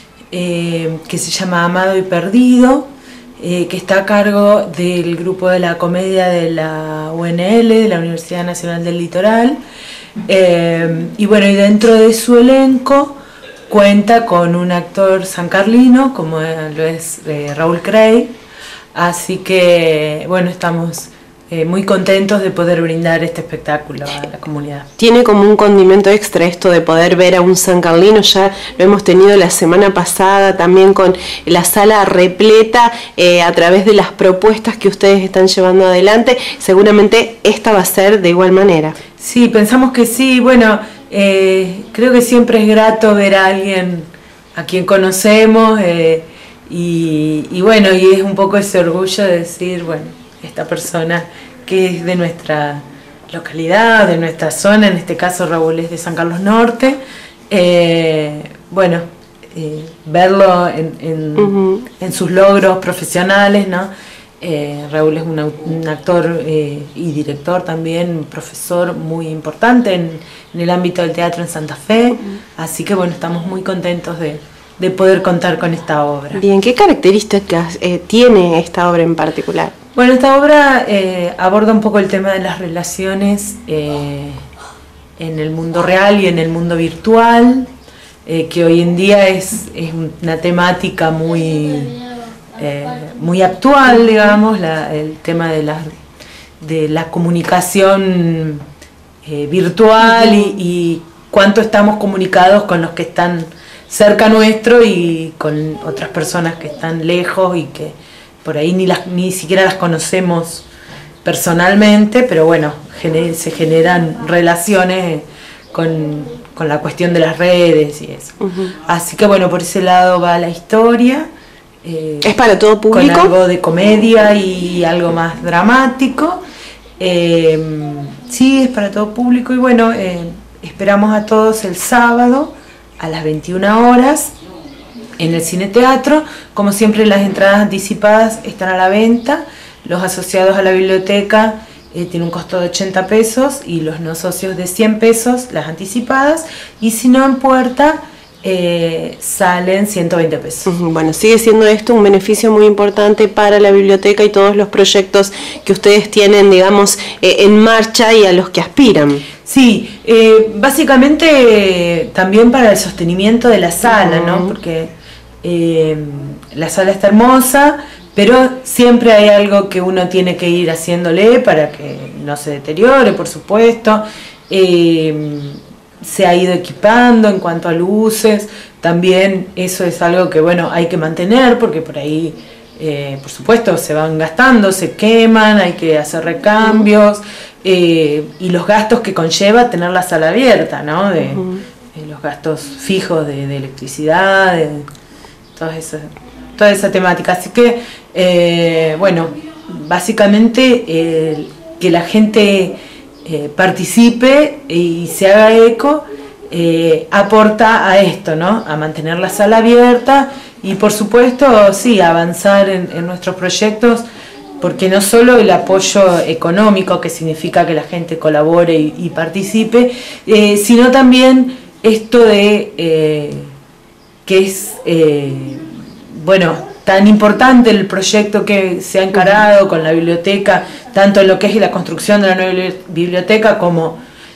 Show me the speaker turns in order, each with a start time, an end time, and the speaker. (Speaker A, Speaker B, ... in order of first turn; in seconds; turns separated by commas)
Speaker A: 0.3-2.9, Speaker A: 3.4-9.6, Speaker A: 10.2-13.2, Speaker A: 13.7-18.3, Speaker A: 18.9-24.9, Speaker B: 25.0-39.0, Speaker A: 39.2-57.0, Speaker A: 57.5-63.9, Speaker B: 61.4-61.8, Speaker A: 64.4-76.4, Speaker B: 76.3-79.7, Speaker A: 79.9-84.4, Speaker A: 85.2-87.7, Speaker A: 88.2-96.0, Speaker A: 96.6-98.6, Speaker A: 99.2-110.7, Speaker A: 111.2-121.3, Speaker A: 121.8-122.4, Speaker B: 122.2-123.3, Speaker A: 122.9-126.4, Speaker A: 127.0-134.3, Speaker A: 135.2-150.7, Speaker B: 150.7-159.2, Speaker A: 159.4-164.9, Speaker B: 163.9-164.5, Speaker A: 165.4-194.9, Speaker B: 191.3-191.6, Speaker A: 195.5-214.0, Speaker A: 214.6-223.5, Speaker A: 224.2-234.0